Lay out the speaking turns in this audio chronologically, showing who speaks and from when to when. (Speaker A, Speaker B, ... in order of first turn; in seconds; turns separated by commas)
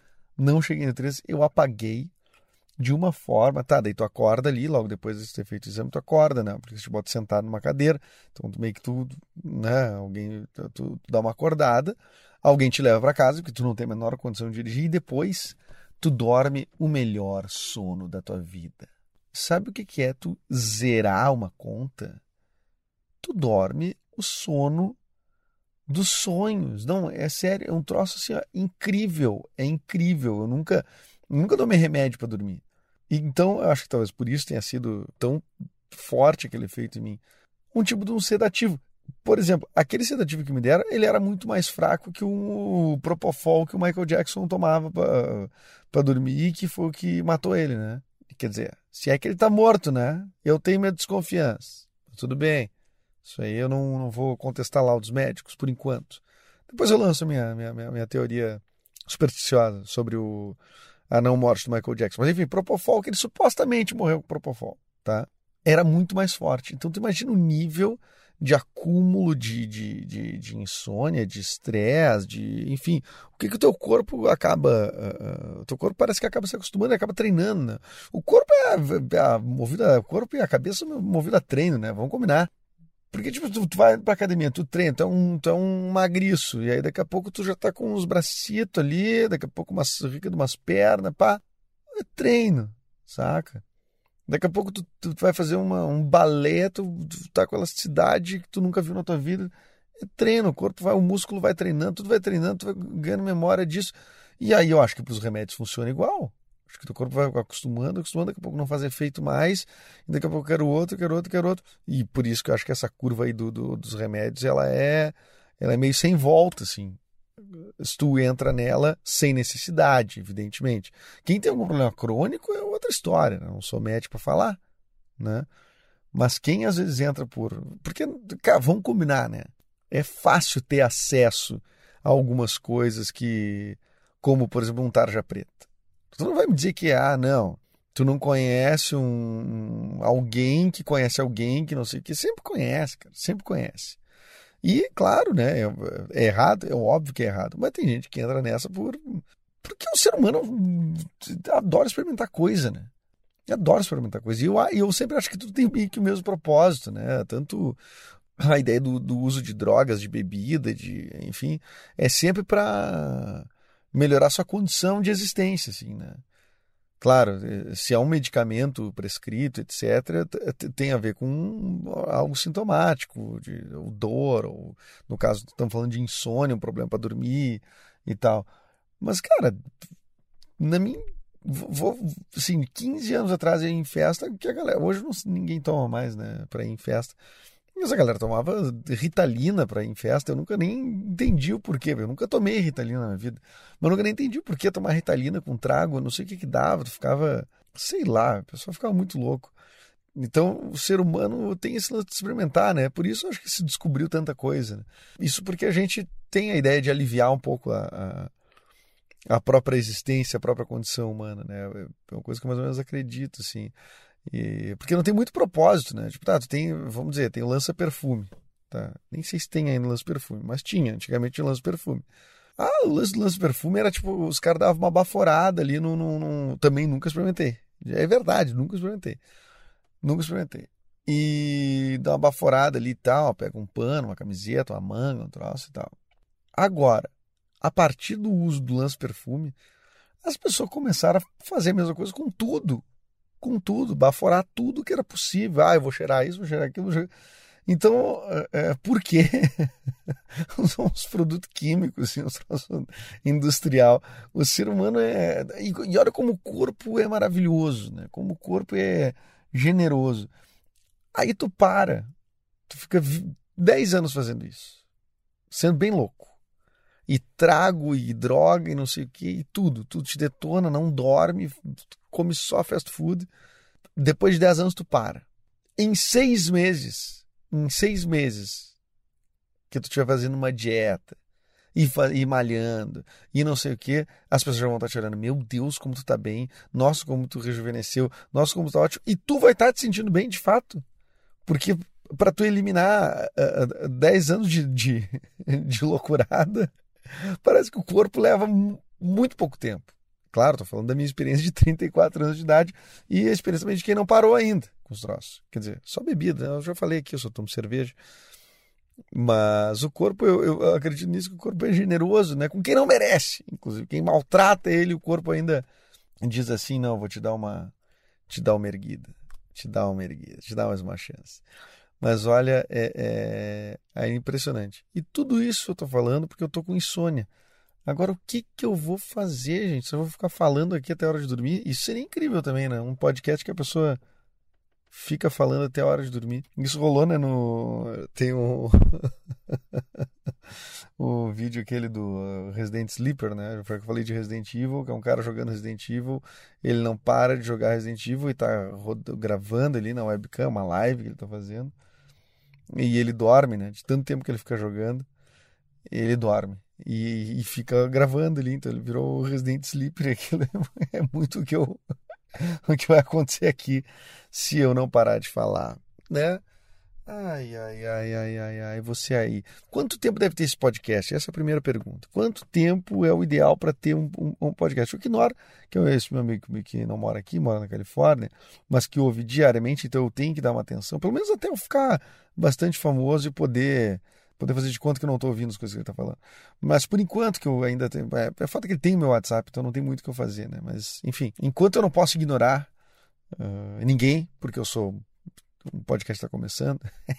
Speaker A: 0.4-2.1, Speaker A: 2.8-22.2, Speaker A: 23.2-25.0, Speaker A: 25.9-37.2, Speaker A: 37.7-52.7, Speaker A: 53.2-60.6, Speaker A: 61.1-82.5, Speaker A: 83.1-91.4, Speaker A: 92.0-93.6, Speaker A: 94.3-117.0, Speaker A: 117.5-124.6, Speaker A: 125.2-125.5, Speaker A: 126.1-144.0, Speaker A: 144.6-152.9, Speaker A: 153.5-157.8, Speaker A: 158.4-166.2, Speaker A: 167.0-178.5, Speaker A: 179.0-179.7, Speaker A: 180.6-187.2, Speaker A: 187.8-199.5, Speaker A: 200.1-208.3, Speaker A: 209.3-213.7, Speaker A: 214.3-222.1, Speaker A: 222.6-229.2, Speaker A: 230.0-235.9, Speaker A: 236.6-237.1, Speaker A: 237.6-239.5, Speaker A: 240.2-242.8, Speaker A: 243.4-247.1, Speaker A: 247.7-249.7, Speaker A: 250.4-260.3, Speaker A: 261.1-262.1, Speaker A: 262.7-264.8, Speaker A: 265.5-266.3, Speaker A: 267.1-273.3, Speaker A: 273.9-275.2, Speaker A: 275.8-278.7, Speaker A: 279.7-281.2, Speaker A: 281.7-290.8, Speaker A: 291.4-307.9, Speaker A: 309.1-315.6, Speaker A: 316.2-317.7, Speaker A: 318.3-321.4, Speaker A: 322.0-327.3, Speaker A: 327.9-334.0, Speaker A: 334.9-340.0, Speaker A: 341.0-351.7, Speaker A: 352.7-355.1, Speaker A: 355.9-361.8, Speaker A: 362.4-366.4, Speaker A: 367.1-392.7, Speaker A: 393.3-395.0, Speaker A: 395.6-396.8